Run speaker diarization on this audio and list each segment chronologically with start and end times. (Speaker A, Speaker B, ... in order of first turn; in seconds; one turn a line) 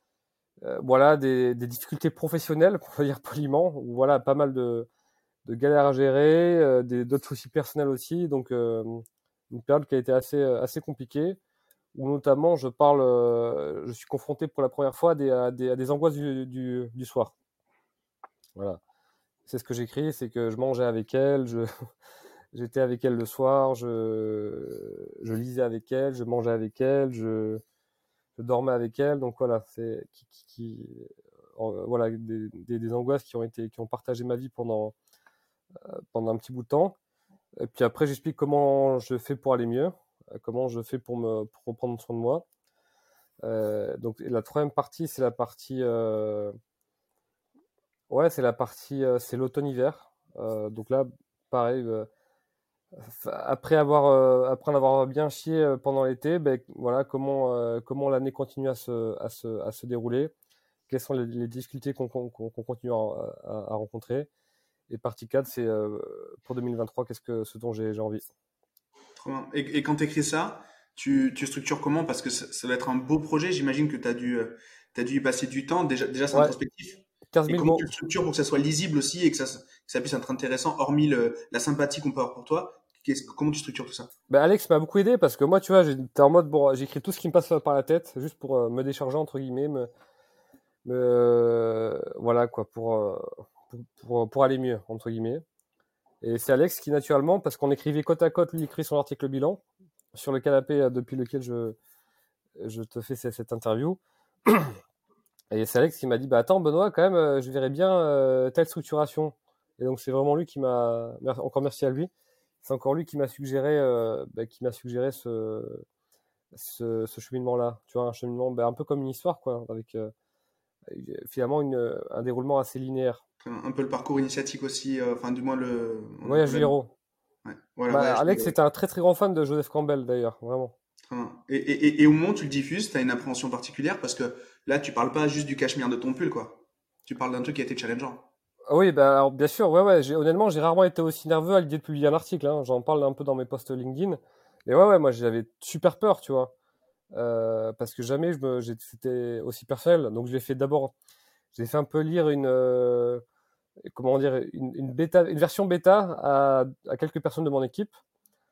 Speaker A: 0.6-4.9
Speaker A: 5.4-11.4
Speaker A: 11.9-17.3
Speaker A: 19.5-21.7
Speaker A: 22.5-27.6
Speaker A: 28.4-34.9
Speaker A: 35.9-36.9
Speaker A: 37.6-42.4
Speaker A: 43.4-46.5
Speaker A: 48.1-52.1
Speaker A: 53.0-60.3
Speaker A: 60.9-64.3
Speaker A: 64.9-68.3
Speaker B: 69.2-84.1
Speaker A: 77.3-77.9
Speaker A: 84.3-89.9
Speaker A: 90.8-95.4
Speaker A: 96.2-99.6
Speaker A: 100.1-101.8
Speaker A: 102.6-104.8
Speaker A: 105.5-112.1
Speaker A: 112.6-115.8
Speaker A: 116.5-120.1
Speaker A: 120.9-123.2
Speaker B: 123.4-126.7
Speaker A: 126.2-126.9
Speaker B: 127.4-128.6
Speaker A: 127.9-130.7
Speaker B: 131.1-138.2
Speaker A: 138.7-146.5
Speaker A: 147.1-150.9
Speaker A: 151.5-153.2
Speaker A: 153.9-158.0